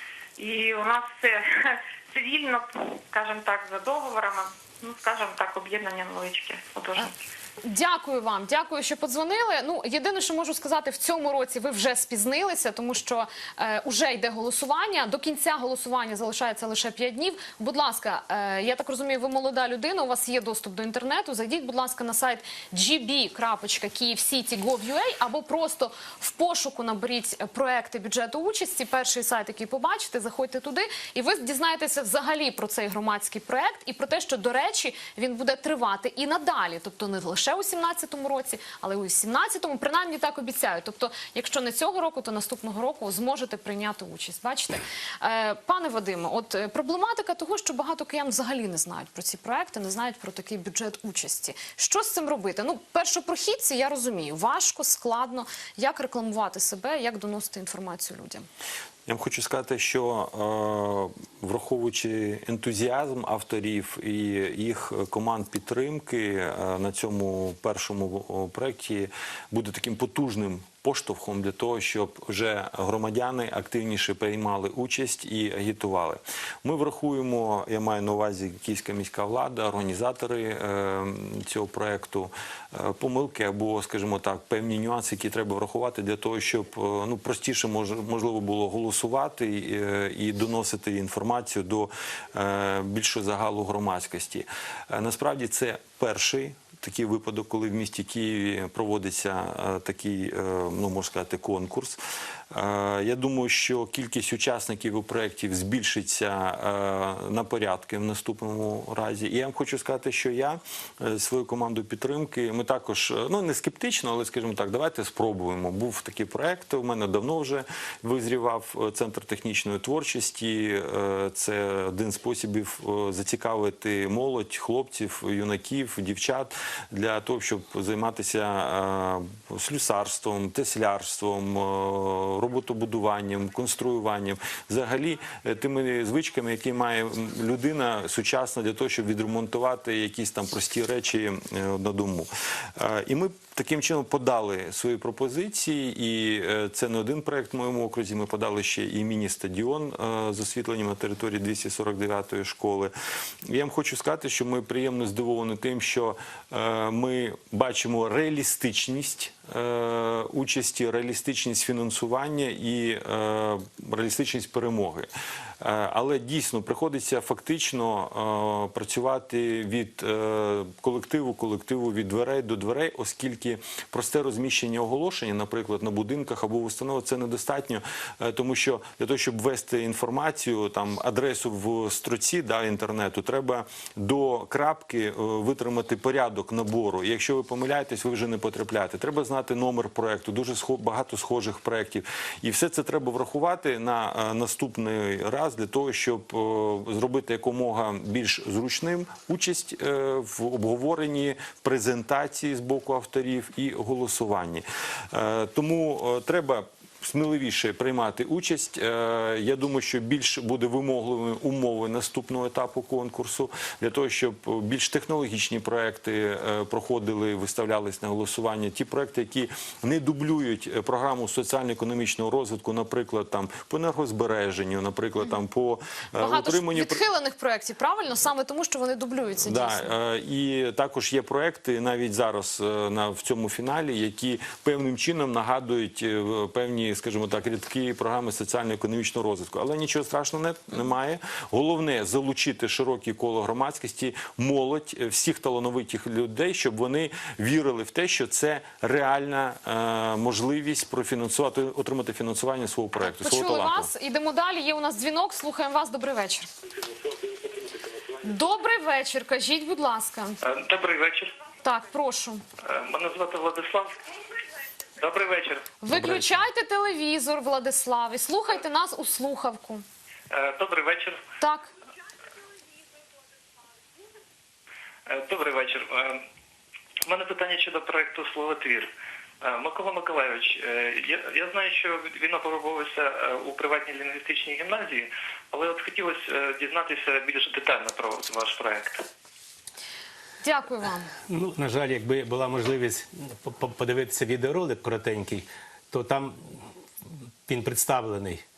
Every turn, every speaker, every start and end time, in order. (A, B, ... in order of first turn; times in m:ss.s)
0:00.4-0:07.1 A
0:07.6-0:58.5 B
0:59.1-1:42.0 C
1:42.5-2:32.9 C
2:33.4-3:47.0 C
3:46.2-3:49.9 B
3:49.4-4:13.9 C
4:13.0-4:16.5 B
4:17.0-4:18.1 D
4:18.2-4:20.4 B
4:20.4-4:21.3 D
4:21.6-4:22.4 B
4:22.6-4:23.9 D
4:25.0-4:26.2 D
4:25.8-4:29.8 B
4:30.3-4:31.2 D
4:31.4-4:31.7 B
4:35.0-4:36.2 D
4:37.0-4:38.9 D
4:39.4-4:49.0 D
4:50.4-4:51.1 B
4:51.3-4:56.6 E
4:57.4-4:58.4 E